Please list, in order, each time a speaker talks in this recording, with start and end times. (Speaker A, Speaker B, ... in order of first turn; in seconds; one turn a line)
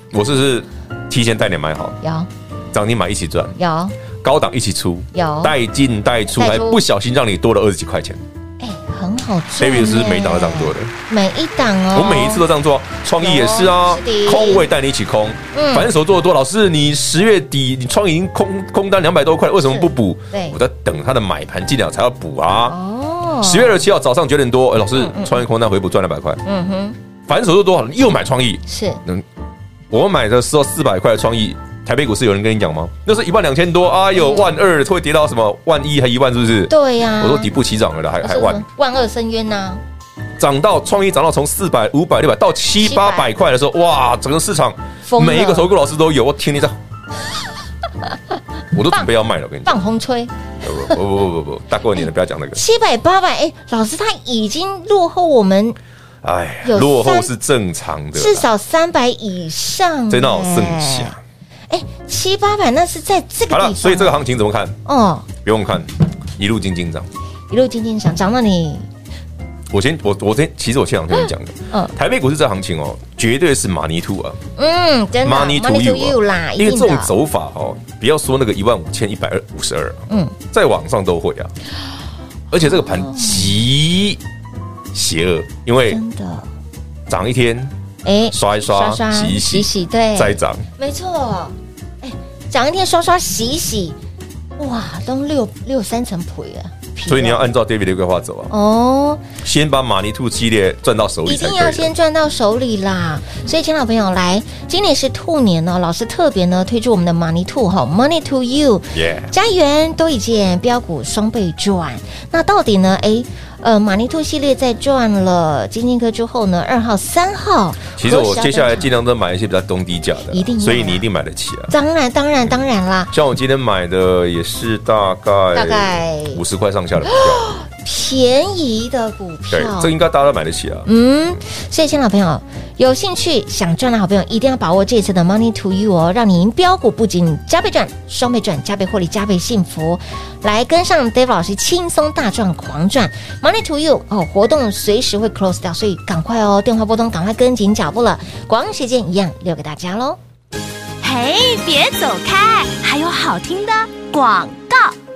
Speaker A: 0.1-2.0
Speaker B: 2.0-2.3
Speaker A: 2.7-3.6
Speaker B: 3.6-4.0
Speaker A: 4.2-8.2
Speaker B: 5.1-5.5
Speaker B: 6.3-6.8
Speaker B: 8.6-12.4
Speaker A: 9.6-10.9
Speaker A: 11.9-22.8
Speaker B: 13.2-14.7
Speaker B: 15.5-15.9
Speaker B: 19.6-20.6
Speaker B: 22.6-23.8
Speaker A: 23.4-26.4
Speaker B: 24.9-25.4
Speaker B: 26.4-27.0
Speaker A: 27.3-29.2
Speaker B: 28.7-29.0
Speaker A: 29.9-38.6
Speaker B: 34.1-34.5
Speaker B: 36.7-37.5
Speaker B: 38.2-39.8
Speaker A: 40.4-46.8
Speaker B: 42.8-43.3
Speaker B: 45.0-45.7
Speaker A: 48.7-49.8
Speaker B: 49.6-50.3
Speaker A: 50.6-52.6
Speaker B: 52.5-55.8
Speaker A: 56.2-58.5
Speaker B: 56.6-57.3
Speaker B: 58.1-61.2
Speaker A: 60.1-61.2
Speaker B: 61.7-64.2
Speaker A: 63.5-64.8
Speaker B: 64.8-65.3
Speaker A: 65.4-67.1
Speaker B: 67.5-68.8
Speaker A: 69.7-74.4
Speaker B: 74.6-77.1
Speaker A: 75.2-81.5
Speaker B: 80.1-80.3
Speaker A: 82.5-84.2
Speaker B: 82.6-83.6
Speaker A: 84.9-86.0
Speaker B: 85.8-86.5
Speaker A: 87.1-87.7
Speaker B: 88.0-94.0
Speaker A: 88.3-90.7
Speaker B: 94.6-97.5
Speaker A: 97.1-98.5
Speaker B: 98.5-99.2
Speaker A: 99.4-101.9
Speaker B: 101.2-118.9
Speaker A: 108.9-109.3
Speaker A: 118.0-121.7
Speaker B: 120.3-121.0
Speaker B: 121.7-123.1
Speaker A: 123.1-127.5
Speaker B: 125.5-126.4
Speaker B: 127.0-129.9
Speaker A: 129.5-130.9
Speaker B: 130.8-150.2
Speaker C: 151.0-154.9